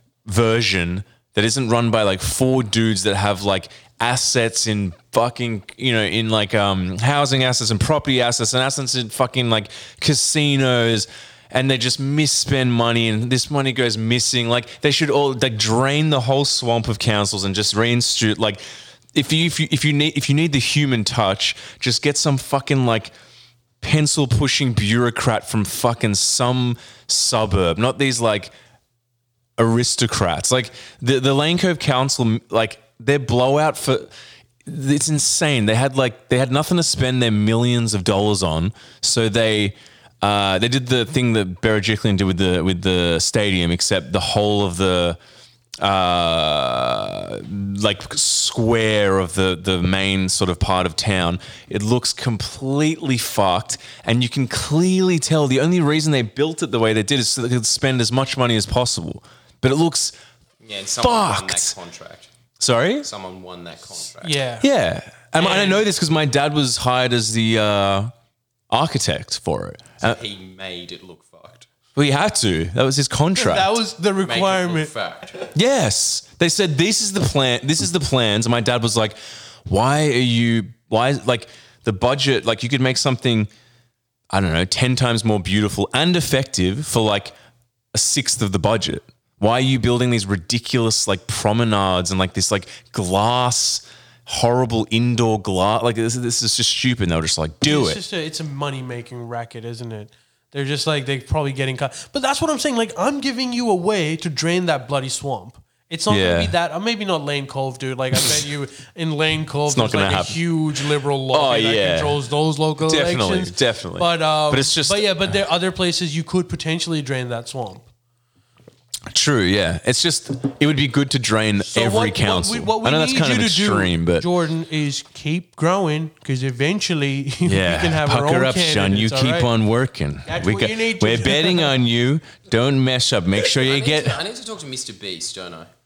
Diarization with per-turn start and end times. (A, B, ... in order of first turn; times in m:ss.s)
0:00.2-0:18.6 A
0:19.1-0:23.1 A
0:23.8-0:28.5 A
0:29.6-0:34.1 A
0:34.6-0:45.2 A
0:45.8-1:00.1 A
1:00.6-1:02.3 B
1:01.0-1:01.7 A
1:02.6-1:03.1 A
1:03.0-1:04.4 B
1:04.2-1:04.7 C
1:04.6-1:08.1 A
1:05.4-1:05.8 C
1:08.7-1:10.2 A
1:10.0-1:11.7 B
1:12.0-1:13.7 A
1:13.3-1:14.9 C
1:14.2-1:15.5 B
1:15.5-1:23.5 A
1:24.3-1:27.3 A
1:27.9-1:38.0 A
1:37.6-1:57.8 C
1:46.1-1:46.6 A
1:49.7-1:50.4 A
1:51.3-1:52.2 A
1:52.8-1:55.1 A
1:59.1-2:04.3 A
2:01.7-2:09.5 C
2:07.4-2:14.2 A
2:10.2-2:11.8 C
2:13.5-2:15.7 B